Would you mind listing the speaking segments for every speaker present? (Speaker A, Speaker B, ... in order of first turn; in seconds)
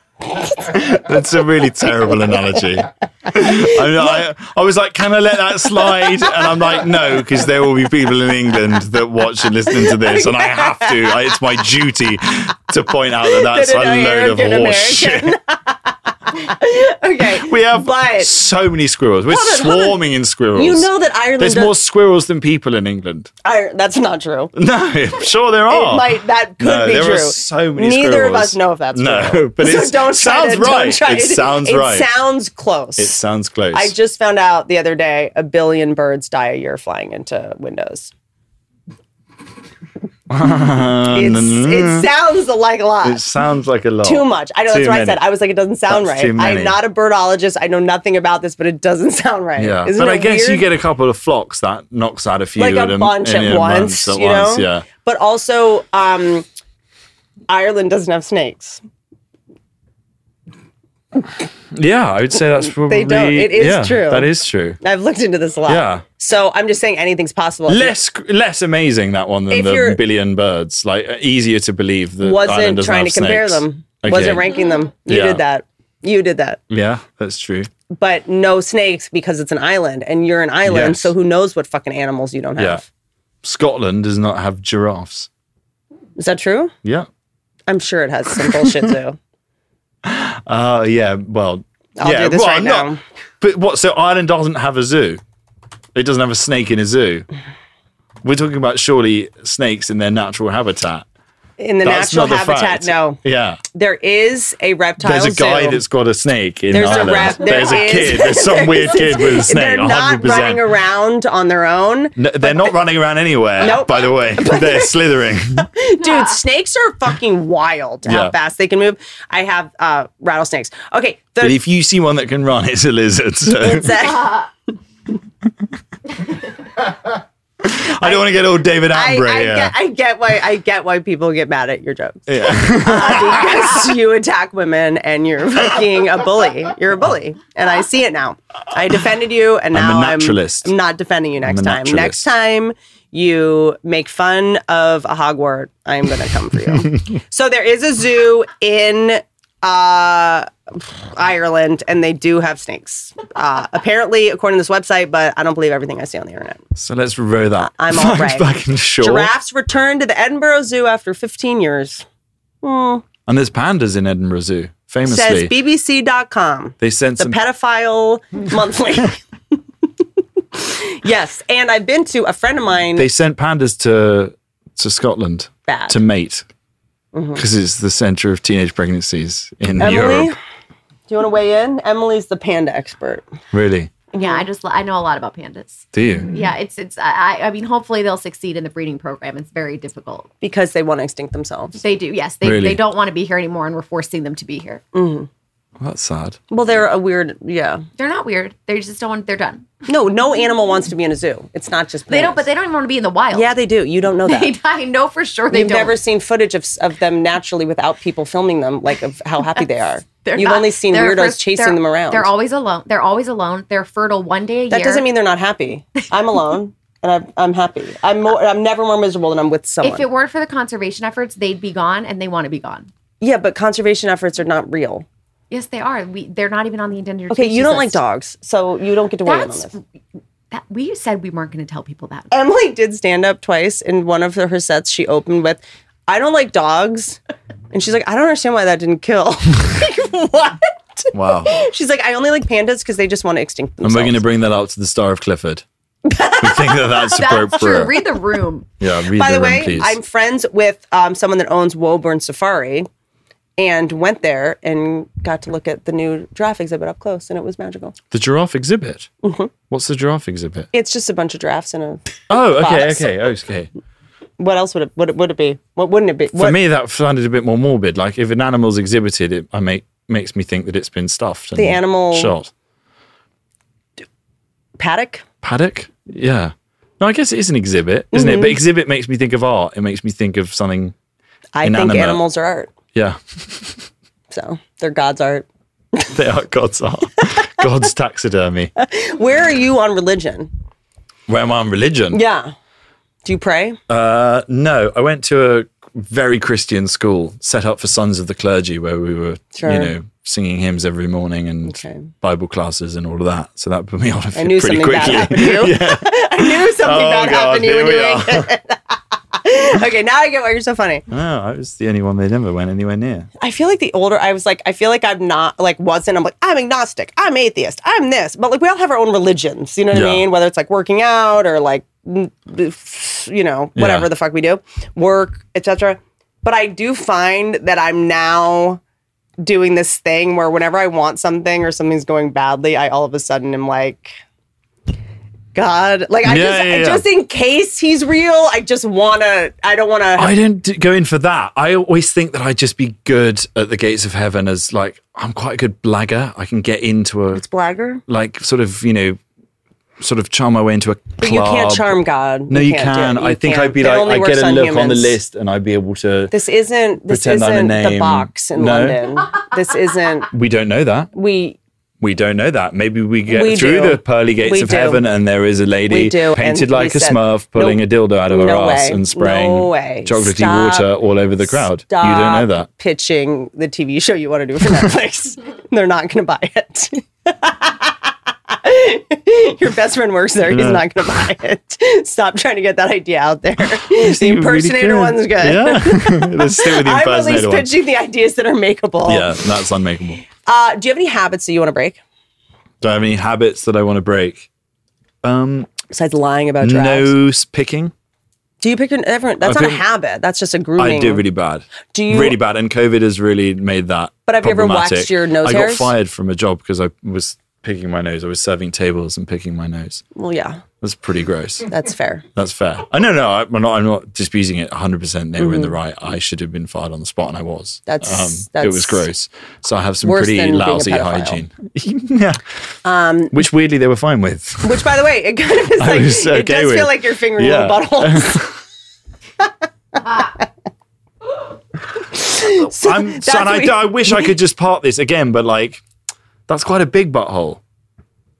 Speaker A: 0.6-15.3, 17.3-23.3, 24.5-32.1, 33.0-33.9, 40.3-42.1, 43.0-45.2, 45.9-46.8, 49.6-54.9, 61.7-64.8, 65.7-66.0, 67.7-74.5, 75.1-75.4, 76.7-77.7, 80.7-81.1, 82.6-82.8, 83.4-85.3, 90.0-95.2, 95.9-97.3, 98.2-101.0, 101.8-103.6, 105.0-110.7, 112.2-115.7, 118.0-118.3, 121.4-124.1, 127.6-129.7, 132.3-133.6, 139.7-140.7, 141.4-142.3, 156.7-159.3, 163.3-165.5, 166.8-167.4, 172.9-176.4, 177.3-180.3, 183.5-183.9, 185.9-186.3, 192.4-192.8, 195.8-196.4, 241.1-241.6, 243.8-245.6, 246.4-248.0, 248.8-250.0, 258.1-259.1, 259.7-260.7, 262.3-263.7, 266.3-272.5, 275.4-280.9, 281.6-282.2, 282.9-283.9, 286.1-288.7, 291.3-292.2, 293.9-308.5, 311.1-313.3, 319.9-320.2, 323.8-324.1, 336.2-337.1, 340.1-347.4, 348.1-349.2, 350.0-356.3, 357.1-359.0, 360.3-361.1, 362.0-372.7, 380.5-380.9, 383.9-387.7, 389.0-390.2, 392.8-394.5, 395.2-395.7, 396.6-397.9, 399.4-399.8, 400.8-410.0, 410.8-411.7, 412.3-422.4, 423.3-424.9, 425.8-428.6, 432.8-435.8, 436.5-437.6
Speaker B: 3.6-4.2, 9.7-11.2, 13.2-18.3, 19.3-20.0, 20.5-21.7, 23.4-24.5, 25.7-33.2, 33.7-38.1, 41.1-43.2, 44.0-50.6, 52.6-56.5, 57.5-58.8, 62.8-67.9, 69.5-70.0, 72.2-76.6, 77.9-82.8, 86.2-86.7, 87.7-89.2, 92.0-93.0, 101.6-103.2, 103.7-105.8, 106.7-112.8, 113.6-115.0, 115.6-121.5, 123.5-124.5, 128.0-156.6, 157.6-158.5, 159.0-162.0, 162.6-163.1, 165.1-169.2, 170.5-173.1, 175.7-176.0, 177.1-177.4, 179.8-180.4, 181.1-183.2, 184.1-184.4, 190.4-191.8, 194.9-195.3, 196.5-197.8, 199.9-202.4, 203.3-204.5, 205.5-212.3, 214.7-220.1, 223.2-225.1, 227.3-229.7, 232.3-237.2, 237.7-244.2, 246.0-247.0, 249.1-252.9, 253.6-257.9, 259.2-259.5, 260.7-263.1, 264.4-266.6, 271.6-272.3, 274.8-275.2, 278.1-278.6, 281.5-282.7, 284.3-286.1, 288.8-290.5, 292.1-292.5, 293.2-293.8, 299.5-299.9, 301.6-302.1, 304.4-311.1, 313.4-328.8, 329.4-334.1, 335.5-340.4, 347.3-348.0, 351.2-355.1, 356.3-360.3, 361.1-361.6, 363.3-365.0, 365.9-370.9, 371.4-389.3, 390.4-392.0, 395.9-397.1, 398.6-401.2, 401.9-402.4, 404.3-405.9, 410.1-410.6, 411.7-412.2, 415.4-415.7, 417.9-419.0, 420.0-421.4, 422.8-423.4, 424.6-428.4, 429.4-430.4, 432.1-434.3
Speaker C: 184.1-190.3, 191.8-194.8, 198.0-199.7, 202.1-203.6, 204.2-206.0, 210.1-215.1, 219.8-222.9, 225.5-228.0, 229.2-229.8, 230.5-232.3, 247.1-248.7